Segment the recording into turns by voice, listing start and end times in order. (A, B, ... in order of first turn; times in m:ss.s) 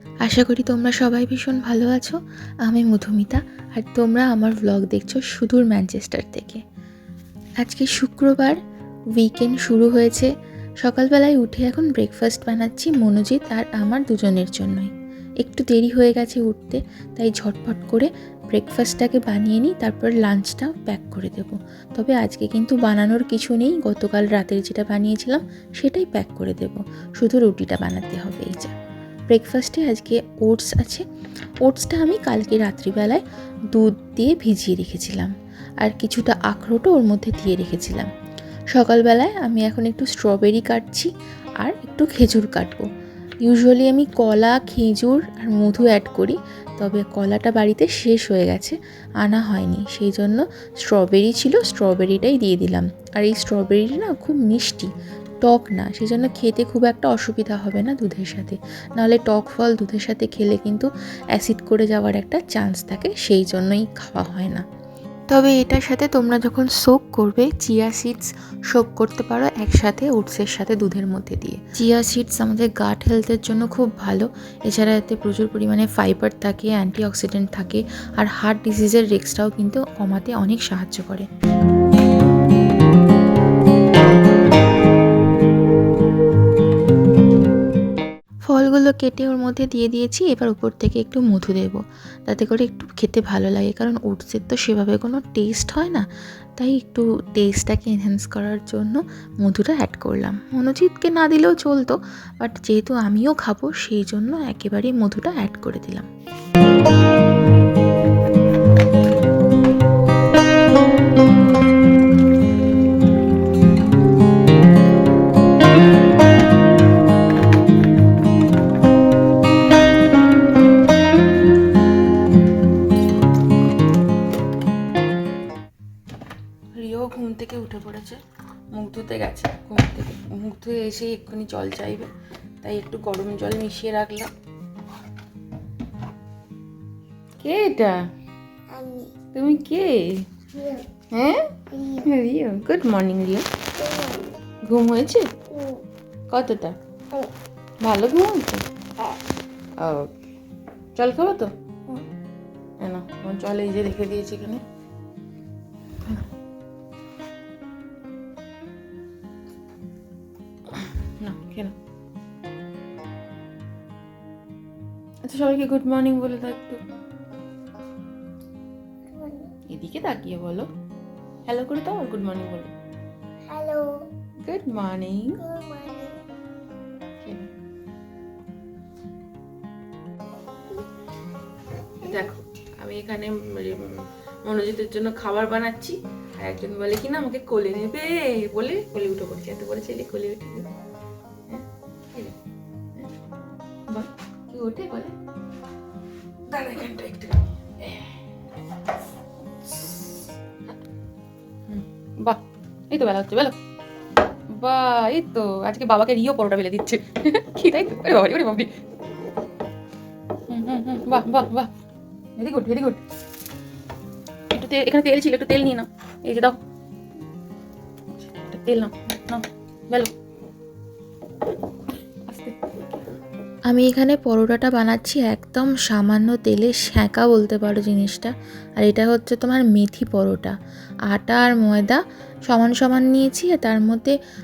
0:00.2-0:06.6 A
0:07.6-0:08.6 A
0:09.2-0:28.7 A
0:29.3-0:31.0 A
0:31.6-0:38.1 A
0:38.7-0:42.9 A
0:43.4-0:54.9 A
0:55.4-1:04.6 A
1:05.3-1:21.3 A
1:28.5-1:36.0 A
1:36.6-1:46.1 A
2:06.7-2:08.2 B
2:08.7-2:12.1 B
2:12.6-2:14.3 B
2:17.4-2:18.0 B
2:18.7-2:19.2 C
2:19.3-2:20.2 B
2:20.5-2:20.9 C
2:21.1-2:21.5 B
2:21.7-2:22.1 C
2:22.0-2:23.5 B
2:23.8-2:24.3 C
2:24.7-2:25.3 B
2:25.5-2:25.8 C
2:26.3-2:26.7 B
2:27.8-2:28.7 B
2:29.8-2:30.2 B
2:31.0-2:31.5 B
2:32.8-2:34.6 B
2:40.8-2:41.7 B
2:45.3-2:46.8 B
2:49.1-2:49.5 C
2:49.7-2:50.7 B
2:51.5-2:52.7 B
2:53.5-2:54.1 C
2:54.4-2:55.4 B
2:55.4-2:56.2 C
2:57.2-2:57.5 B
3:02.1-3:10.7 B
3:11.5-3:12.3 B
3:13.9-3:15.1 B
3:16.5-3:18.1 B
3:21.7-3:22.4 B
3:22.9-3:23.5 B
3:24.5-3:28.7 B
3:30.5-3:31.7 B
3:32.4-3:33.0 B
3:34.5-3:36.6 B
3:38.5-3:40.1 B
3:43.7-3:50.6 A
3:51.1-3:54.1 A